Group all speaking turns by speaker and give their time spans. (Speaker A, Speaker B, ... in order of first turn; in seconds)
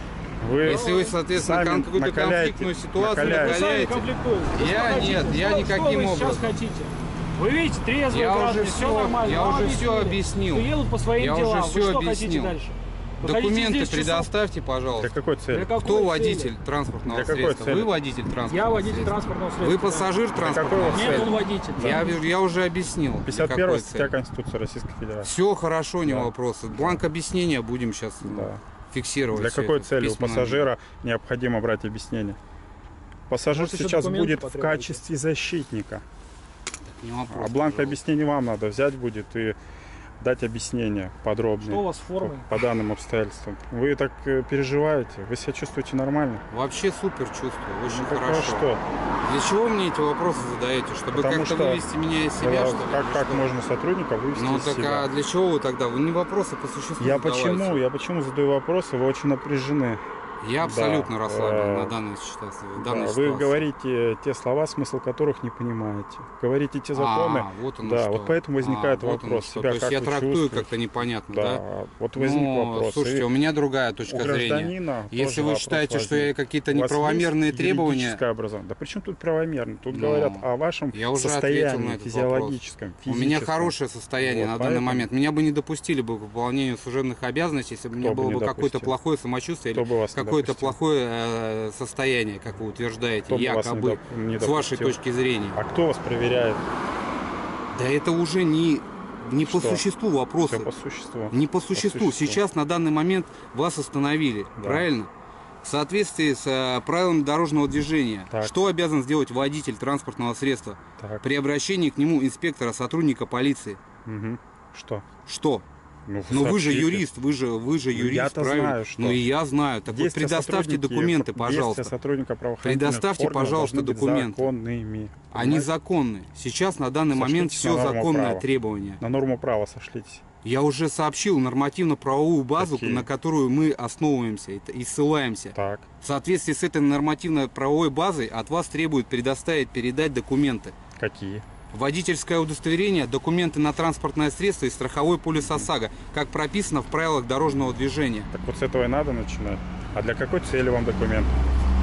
Speaker A: 0.4-3.7, 14.9-15.7, 17.0-17.9, 20.3-22.1, 23.2-25.3, 26.0-27.0, 28.2-28.6, 29.3-32.4, 33.3-36.0, 37.3-39.6, 40.2-46.4, 47.8-48.8, 51.1-51.8, 52.4-55.1, 57.0-60.0, 60.6-61.9, 62.8-70.8, 71.3-73.3, 74.1-85.1, 88.0-88.9, 89.7-90.8, 93.3-95.0, 95.5-96.6, 99.3-99.8, 100.5-102.4, 104.6-104.8, 111.0-111.2, 114.0-115.0, 116.1-117.0, 117.9-119.2, 119.9-125.7, 127.1-128.4, 129.0-130.2, 132.6-133.1, 135.5-135.9, 141.0-141.4, 145.4-145.7, 148.3-151.4
Speaker B: 0.6-1.1, 3.1-14.3, 15.5-16.5, 18.4-20.1, 20.9-22.1, 33.5-35.0, 41.6-42.5
Speaker C: 0.6-6.6, 8.1-12.6, 13.2-15.1, 15.8-24.1, 25.2-30.7, 36.8-38.0, 46.5-48.7, 49.2-53.5, 54.3-57.8, 60.4-63.6, 66.9-71.6, 72.1-78.2, 79.9-95.6, 97.7-100.7, 101.3-105.1, 105.6-113.8, 115.2-115.6, 116.3-121.9, 122.6-124.5, 125.3-129.0, 130.4-140.8, 141.7-148.3